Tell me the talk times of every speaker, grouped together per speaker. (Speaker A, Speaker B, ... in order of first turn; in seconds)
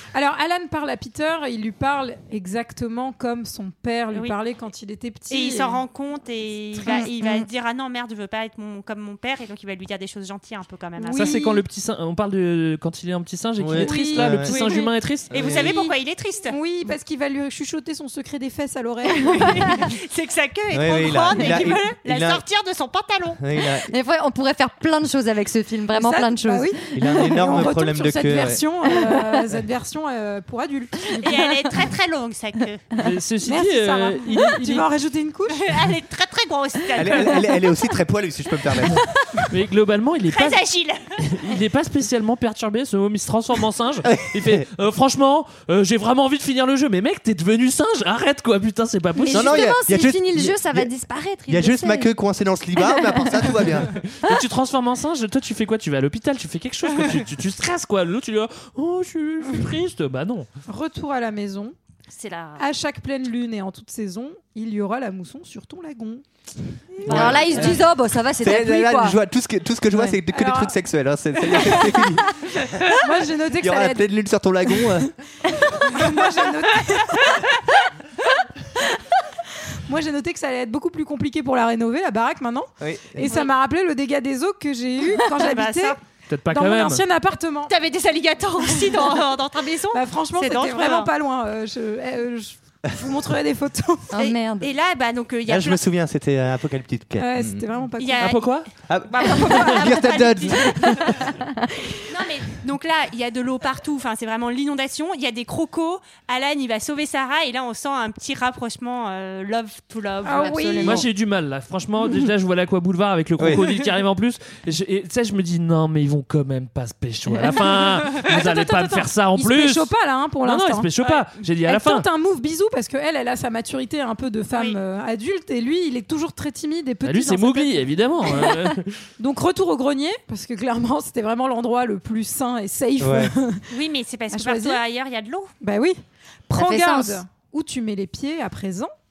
Speaker A: 0.1-5.8, 11.0-11.6, 13.8-14.9, 15.6-15.9, 16.5-19.9, 25.9-31.3, 33.4-35.7, 60.7-61.7, 62.6-66.2, 70.3-70.7, 71.6-71.8, 72.9-74.1, 75.7-77.3, 79.9-86.0, 86.5-87.7, 89.9-94.1, 97.2-98.3, 110.2-111.0, 117.7-120.9, 121.6-127.9, 129.2-133.7, 134.3-134.8, 135.6-138.9
Speaker B: 5.3-11.4, 15.3-16.6, 19.4-23.4, 31.2-32.8, 35.5-37.4, 40.3-41.0, 62.1-62.6, 85.4-86.0, 87.7-91.1, 94.1-95.8, 98.0-101.2, 102.1-111.0, 121.0-121.3, 133.7-135.5
Speaker C: 6.8-7.5, 23.8-27.4, 28.9-29.5, 39.0-39.4, 49.1-52.1, 52.8-54.4, 67.0-69.2, 94.1-94.7, 101.4-102.0, 136.5-137.2
Speaker D: 11.1-15.3, 33.0-34.9, 39.5-40.6, 41.2-49.7, 54.2-60.5, 86.3-87.0, 98.2-98.7, 110.8-119.9, 120.4-122.0, 127.0-129.0
Speaker E: 13.6-14.8, 15.3-15.7, 20.7-22.4, 23.4-23.9, 26.9-28.6, 37.0-39.0, 44.0-44.7, 49.3-50.9, 51.5-54.0, 67.0-67.9, 68.4-72.9, 73.6-75.1, 82.8-83.3, 95.5-97.6, 98.9-101.1, 133.0-133.3